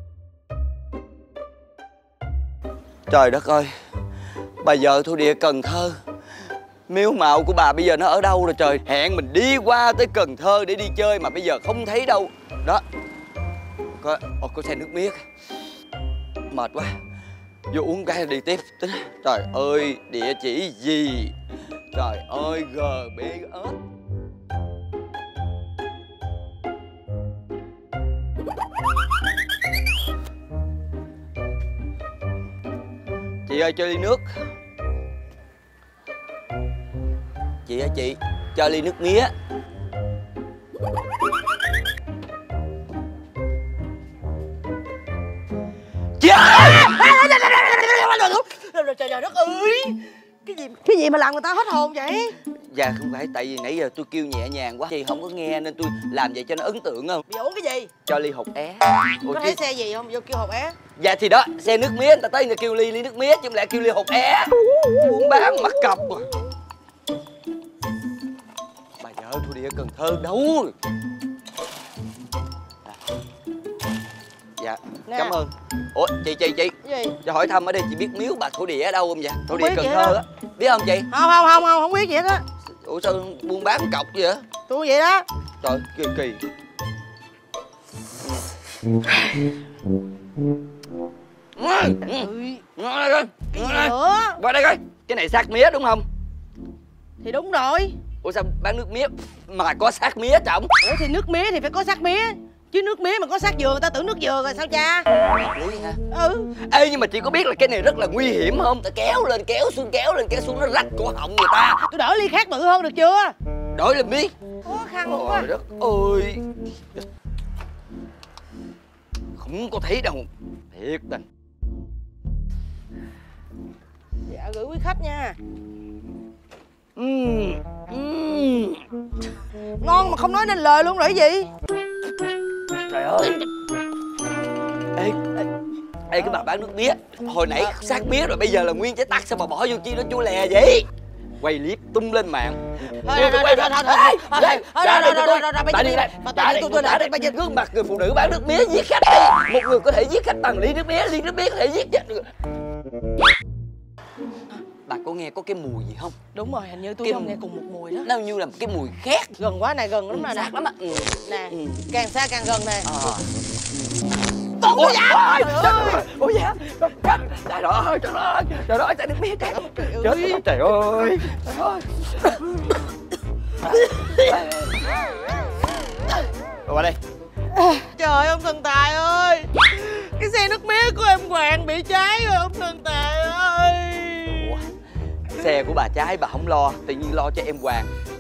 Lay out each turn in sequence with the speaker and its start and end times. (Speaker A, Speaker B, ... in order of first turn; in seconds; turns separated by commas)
Speaker A: 3.1-3.7, Speaker A: 4.6-6.0, Speaker A: 6.9-12.8, Speaker A: 14.0-15.2, Speaker A: 16.5-16.9, Speaker A: 17.7-21.3, Speaker A: 21.9-23.8, Speaker A: 33.5-34.2, Speaker A: 37.6-39.3, Speaker A: 46.2-46.6, Speaker B: 46.3-52.4, Speaker A: 52.7-57.2, Speaker B: 57.3-57.9, Speaker A: 58.0-59.6, Speaker B: 59.2-60.8, Speaker A: 61.0-66.3, Speaker A: 69.0-70.7, Speaker A: 74.6-81.1, Speaker B: 75.1-75.3, Speaker B: 76.8-77.1, Speaker B: 79.5-80.2, Speaker B: 81.1-82.4, Speaker A: 82.8-84.5, Speaker B: 84.7-85.2, Speaker A: 85.6-86.4, Speaker A: 91.6-96.0, Speaker B: 92.1-92.6, Speaker B: 93.5-94.4, Speaker B: 97.2-98.0, Speaker A: 98.2-100.7, Speaker B: 100.8-105.0, Speaker A: 105.4-106.0, Speaker B: 106.1-106.5, Speaker A: 106.6-111.8, Speaker B: 111.9-113.3, Speaker A: 113.7-114.3, Speaker B: 114.7-115.5, Speaker A: 115.1-116.4, Speaker A: 119.4-121.2, Speaker B: 124.3-125.4, Speaker A: 127.0-128.8, Speaker B: 129.8-131.5, Speaker A: 132.9-133.4, Speaker A: 134.9-135.2, Speaker A: 136.1-140.9, Speaker A: 141.4-152.3, Speaker B: 143.0-147.3, Speaker A: 154.8-156.2, Speaker B: 156.3-158.1, Speaker A: 157.0-157.4, Speaker A: 158.0-159.3, Speaker B: 159.4-160.5, Speaker A: 160.3-161.8, Speaker B: 161.2-162.9, Speaker A: 162.8-163.9, Speaker B: 164.6-166.0, Speaker A: 164.6-171.9, Speaker B: 169.4-170.4, Speaker A: 173.7-174.7, Speaker A: 176.7-177.0, Speaker B: 177.5-184.5, Speaker A: 184.3-184.6, Speaker A: 185.4-187.9